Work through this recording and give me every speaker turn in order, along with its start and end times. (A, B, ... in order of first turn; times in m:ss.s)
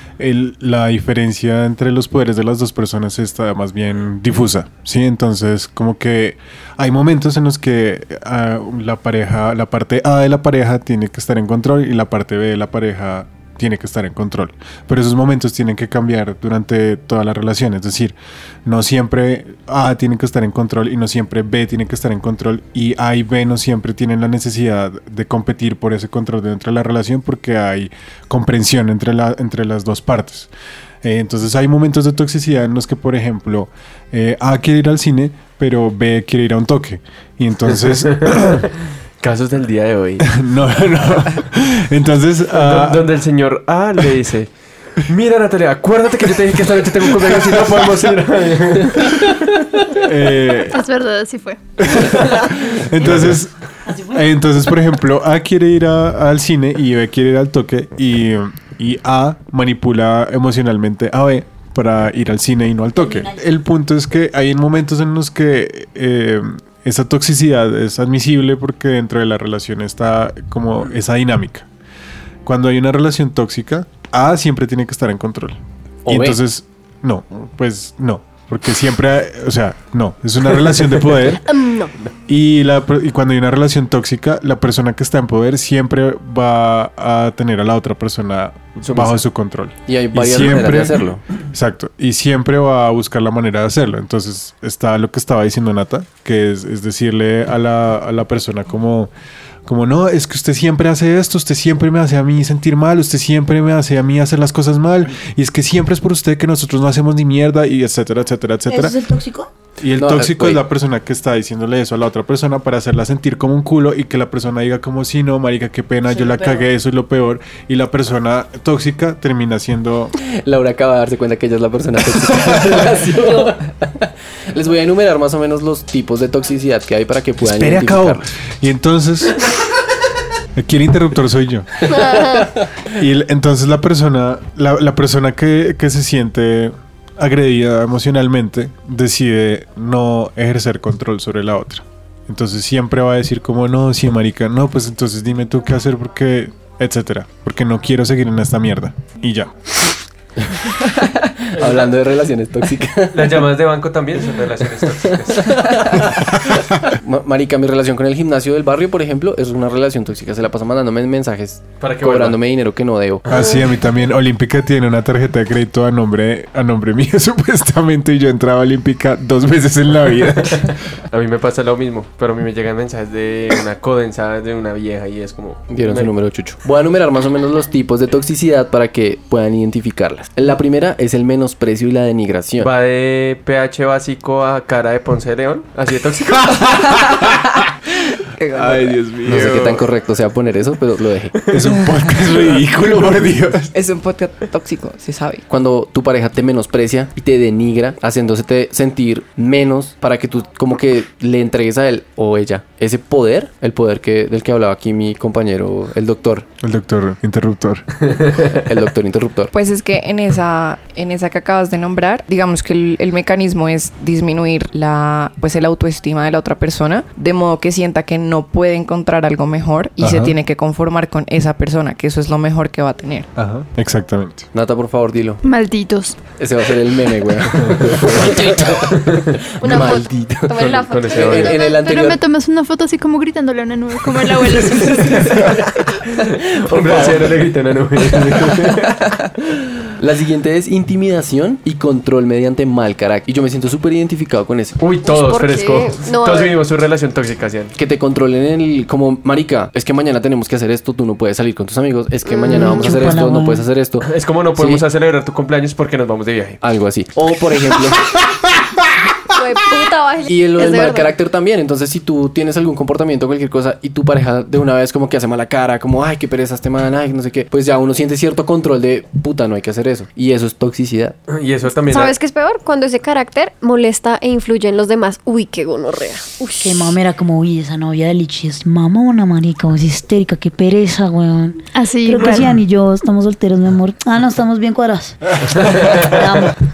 0:00.2-0:30.5 A
0:31.0-0:38.6 A
0:37.7-0:40.3 B
0:40.2-0:43.2 A
0:42.5-0:49.8 B
0:47.1-0:48.1 A
0:48.8-0:50.8 A
0:50.7-0:51.6 C
0:51.8-1:11.7 A
0:52.0-0:53.4 B
0:53.8-0:54.3 D
1:03.0-1:03.4 D
1:12.4-1:21.4 A
1:16.0-1:16.4 E
1:21.4-1:21.9 F
1:22.3-1:39.1 A
1:28.8-1:29.2 B
1:29.9-1:31.2 E
1:39.6-1:49.0 A
1:48.7-1:49.5 D
1:49.8-2:00.1 A
1:49.9-1:50.6 E
1:56.1-1:56.6 D
2:00.2-2:08.3 E
2:02.3-2:02.8 A
2:07.4-2:09.4 A
2:10.6-2:11.9 A
2:11.8-2:12.6 F
2:12.9-2:29.5 A
2:31.4-2:33.5 E
2:31.6-2:31.8 B
2:33.1-2:35.8 B
2:35.2-2:43.2 E
2:41.8-2:42.4 B
2:43.2-2:43.6 B
2:43.3-2:50.8 A
2:50.5-2:56.1 B
2:55.7-3:02.7 E
3:02.6-3:06.9 B
3:06.4-3:07.6 A
3:08.4-3:09.1 G
3:08.5-3:09.8 A
3:09.2-3:11.4 E
3:09.3-3:09.6 B
3:11.5-3:13.7 A
3:13.7-3:15.4 G
3:15.5-3:26.5 E
3:26.6-3:27.9 A
3:28.5-3:29.5 E
3:29.5-3:43.3 G
3:40.0-3:40.3 A
3:43.3-3:44.5 A
3:44.5-3:45.4 E
3:45.4-3:46.2 C
3:46.4-3:52.2 E
3:47.7-3:48.2 B
3:49.0-3:49.4 B
3:49.6-3:52.0 F
3:50.5-3:51.6 B
3:51.6-3:55.4 C
3:54.9-3:59.0 B
3:56.6-3:57.4 E
3:58.2-3:58.7 E
3:58.3-3:58.7 A
4:00.0-4:04.8 E
4:04.8-4:07.7 B
4:05.0-4:06.6 F
4:07.8-4:14.8 E
4:12.3-4:13.0 F
4:12.4-4:13.7 D
4:14.0-4:16.6 B
4:16.6-4:18.0 E
4:19.3-4:21.1 F
4:20.2-4:31.2 E
4:31.3-4:32.1 B
4:31.9-4:36.9 F
4:36.6-4:45.4 D
4:41.7-4:42.5 C
4:45.9-4:46.6 D